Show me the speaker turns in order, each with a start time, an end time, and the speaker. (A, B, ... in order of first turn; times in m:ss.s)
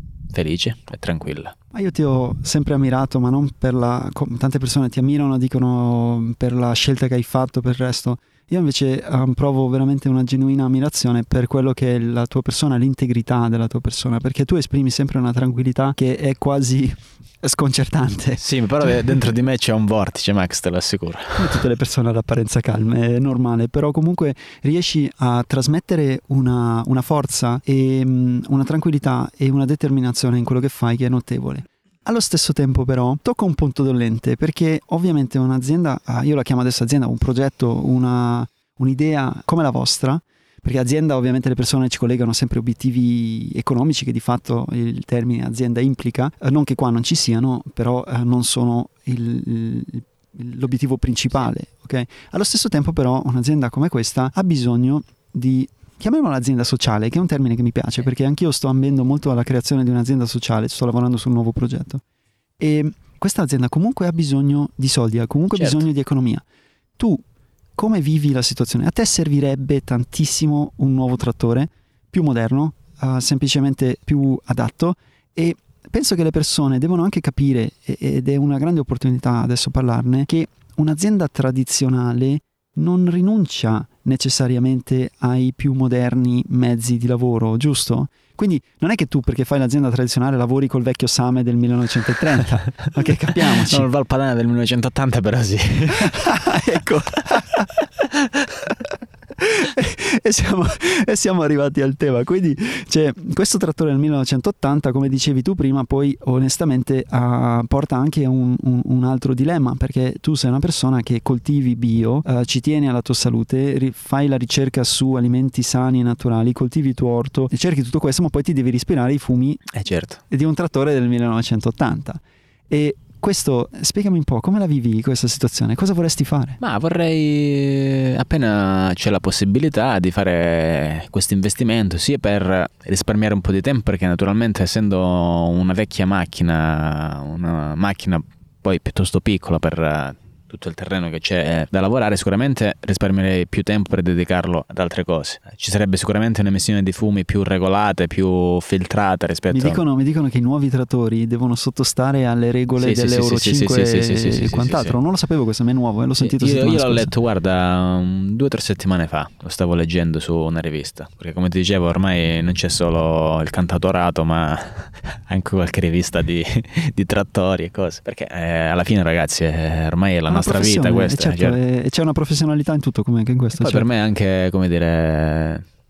0:00.3-0:01.5 A
0:01.7-0:19.2 B
0:18.4-0:21.6 A
0:21.4-1:02.0 B
1:02.6-1:06.4 B
1:05.6-1:05.9 A
1:07.8-1:33.9 B
1:33.5-1:36.6 A
1:36.0-1:37.7 B
1:38.7-1:59.6 B
1:59.7-2:00.2 A
2:00.3-2:06.6 B
2:06.6-2:29.8 A
2:29.5-2:37.1 B
2:32.8-2:35.0 A
2:36.2-2:51.6 A
2:50.3-2:53.9 B
2:53.5-2:55.6 A